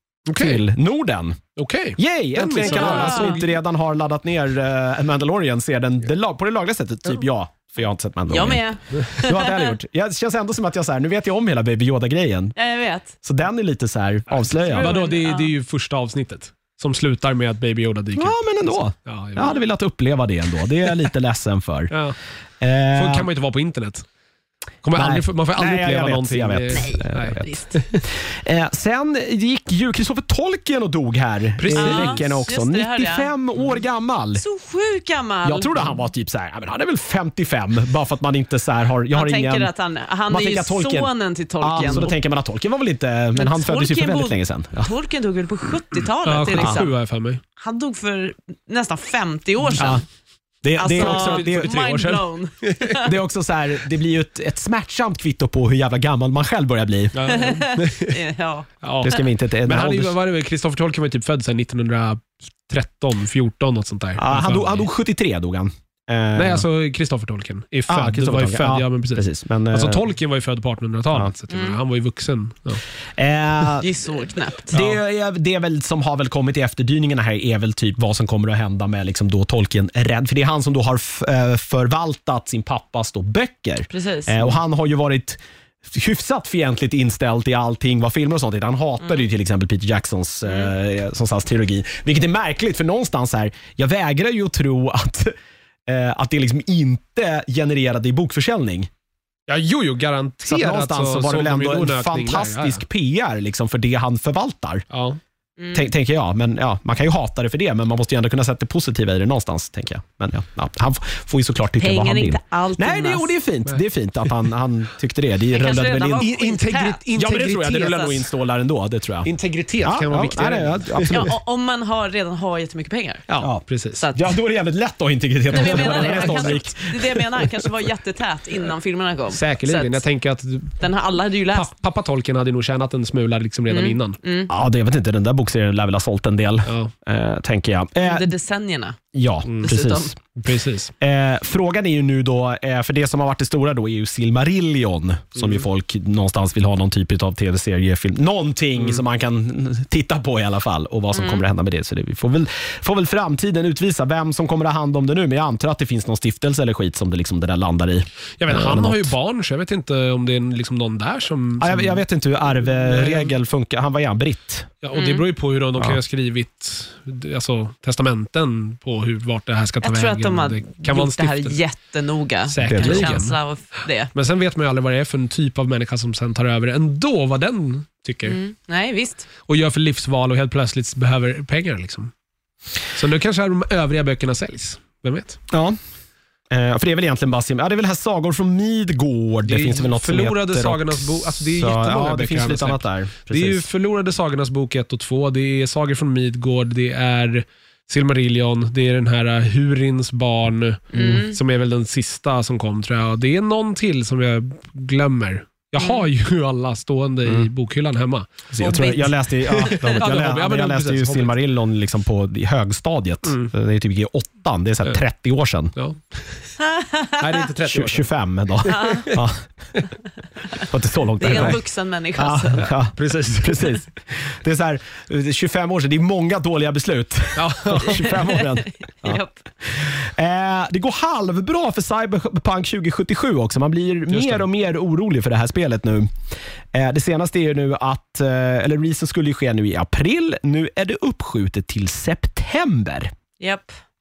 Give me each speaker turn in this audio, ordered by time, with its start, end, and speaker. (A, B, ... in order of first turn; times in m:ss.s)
0:00.3-0:00.6 A
0:00.3-0:01.4 B
0:01.6-0:03.4 A
0:02.0-0:12.5 B
0:02.6-0:03.4 C
0:08.3-0:09.7 C
0:12.6-0:13.1 C
0:13.2-0:15.0 B
0:14.3-0:19.5 A
0:14.7-0:15.5 C
0:18.2-0:21.9 B
0:21.9-0:22.2 A
0:22.6-0:23.3 B
0:22.9-0:24.0 A
0:24.8-0:28.0 A
0:24.9-0:27.5 B
0:26.7-0:27.8 C
0:28.2-0:34.4 B
0:31.6-0:32.4 A
0:31.7-0:33.3 C
0:34.4-0:36.0 C
0:35.4-0:39.7 B
0:39.1-0:42.1 C
0:40.3-0:44.9 B
0:43.3-0:46.9 C
0:46.2-0:47.4 A
0:46.6-0:46.8 B
0:47.6-0:50.0 C
0:49.7-0:50.0 B
0:50.6-0:51.7 B
0:50.8-0:53.1 C
0:50.9-0:53.0 A
0:53.0-0:57.2 B
0:57.1-0:58.2 A
0:57.2-0:58.7 C
0:58.8-1:04.8 A
0:59.0-1:00.1 B
1:04.2-1:06.6 B
1:06.4-1:12.8 A
1:07.9-1:10.0 B
1:11.5-1:11.8 C
1:13.2-1:13.8 B
1:13.8-1:14.7 C
1:14.7-1:35.3 B
1:14.7-1:15.0 A
1:23.9-1:24.5 C
1:35.8-1:38.9 B
1:39.5-1:42.8 A
1:40.4-1:44.8 B
1:44.9-1:45.2 A
1:45.6-1:45.9 C
1:45.7-1:56.3 B
1:51.8-1:53.3 C
1:55.5-1:57.0 C
1:56.2-1:58.2 A
1:57.1-1:59.3 B
1:57.7-1:58.2 C
1:59.2-2:01.2 A
1:59.8-2:01.3 B
2:01.1-2:03.2 C
2:03.3-2:03.6 B
2:03.6-2:04.0 A
2:04.0-2:04.3 C
2:04.1-2:07.7 B
2:05.5-2:10.0 C
2:05.6-2:06.6 A
2:09.3-2:10.8 A
2:10.8-2:11.7 C
2:11.5-2:14.2 A
2:13.7-2:14.5 C
2:14.5-2:18.3 B
2:16.6-2:16.9 A
2:18.0-2:19.0 C
2:19.1-2:20.1 B
2:19.5-2:19.7 A
2:19.6-2:20.1 C
2:20.3-2:20.9 A
2:21.0-2:39.1 B
2:25.4-2:25.6 A
2:31.1-2:31.4 C
2:38.4-2:42.0 A
2:41.6-2:44.7 B
2:42.7-2:43.3 A
2:44.8-2:51.6 A
2:44.9-2:45.2 C
2:49.8-2:54.1 C
2:52.5-2:53.4 A
2:52.6-2:53.2 B
2:54.1-2:58.4 A
2:58.2-2:59.3 C
2:59.5-3:02.1 A
3:02.9-3:05.4 A
3:05.5-3:05.8 B
3:06.5-3:13.7 B
3:09.4-3:28.8 A
3:20.9-3:21.4 C
3:20.9-3:21.2 B
3:25.8-3:26.0 C
3:28.5-3:35.7 B
3:28.6-3:29.9 C
3:29.5-3:31.4 A
3:33.2-3:33.5 A
3:35.7-3:36.5 A
3:36.6-3:37.2 C
3:37.2-3:38.1 A
3:37.7-3:39.4 B
3:38.7-3:39.1 C
3:38.7-3:39.2 A
3:40.6-3:41.6 B
3:41.2-3:42.7 C
3:41.3-3:41.6 A
3:42.2-3:56.1 B
3:42.9-3:43.8 A
3:47.4-3:48.3 A
3:47.8-3:49.4 C
3:54.1-3:54.4 A
3:56.7-4:03.1 B
4:03.4-4:03.7 C